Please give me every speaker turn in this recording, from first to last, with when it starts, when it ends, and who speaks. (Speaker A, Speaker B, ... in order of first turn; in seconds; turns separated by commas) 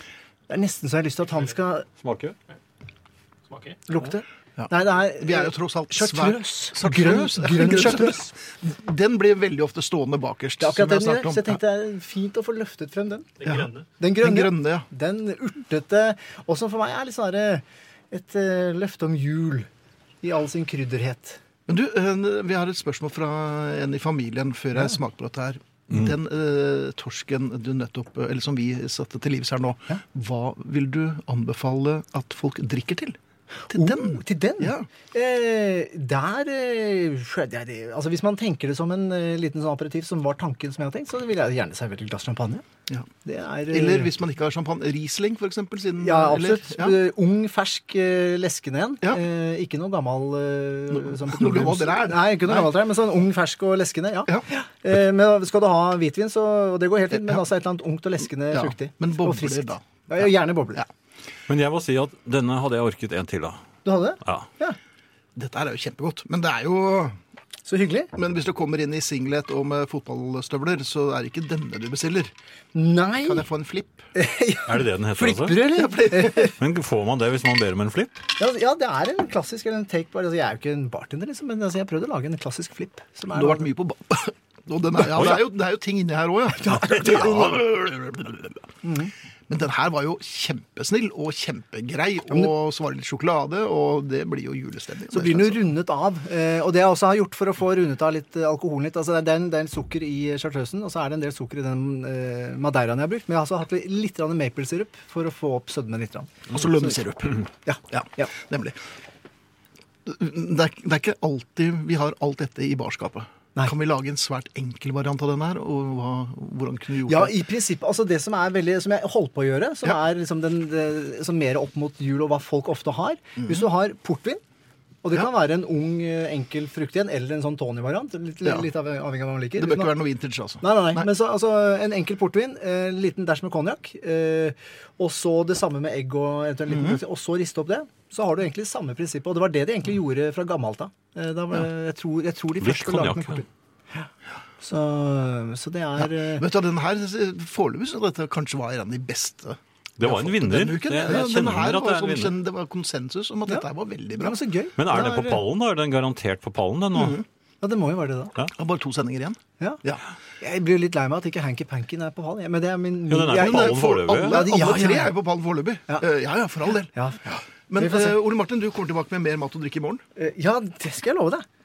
Speaker A: 0.5-1.9, Speaker B: 2.0-2.4, Speaker B: 3.5-3.8, Speaker A: 3.9-8.3, Speaker C: 4.6-11.6, Speaker A: 10.6-19.7, Speaker C: 13.4-14.9, Speaker A: 20.2-21.4, Speaker C: 21.7-33.2, Speaker A: 33.6-42.6, Speaker C: 33.7-34.9, Speaker A: 43.2-44.1, Speaker C: 43.7-47.0, Speaker A: 46.0-60.8, Speaker C: 50.9-52.7, Speaker C: 57.1-57.4, Speaker C: 58.5-60.9, Speaker B: 61.5-63.6, Speaker A: 63.8-64.8, Speaker C: 65.3-67.2, Speaker A: 67.7-68.1, Speaker C: 68.1-72.3, Speaker A: 72.7-73.5, Speaker C: 73.2-74.1, Speaker A: 74.1-76.5, Speaker B: 74.7-75.7, Speaker C: 75.7-76.5, Speaker B: 76.5-78.2, Speaker A: 78.4-83.7, Speaker C: 83.3-88.6, Speaker B: 85.1-85.4, Speaker A: 86.5-87.6, Speaker A: 88.8-89.1, Speaker C: 89.5-95.6, Speaker A: 95.1-106.9, Speaker C: 106.5-108.8, Speaker A: 107.7-108.3, Speaker C: 110.0-117.4, Speaker A: 117.1-124.4, Speaker C: 123.4-123.6, Speaker A: 125.0-129.9, Speaker C: 129.6-131.1, Speaker A: 130.6-144.1, Speaker C: 136.7-137.0, Speaker B: 142.6-143.4, Speaker A: 144.6-146.4, Speaker C: 146.0-154.4, Speaker B: 150.0-152.3, Speaker A: 153.5-155.4, Speaker B: 154.8-157.2, Speaker C: 156.9-157.2, Speaker A: 157.6-158.3, Speaker C: 158.5-160.0, Speaker A: 160.4-165.1, Speaker B: 163.1-164.4, Speaker C: 163.3-170.0, Speaker A: 166.9-168.2, Speaker A: 170.2-171.4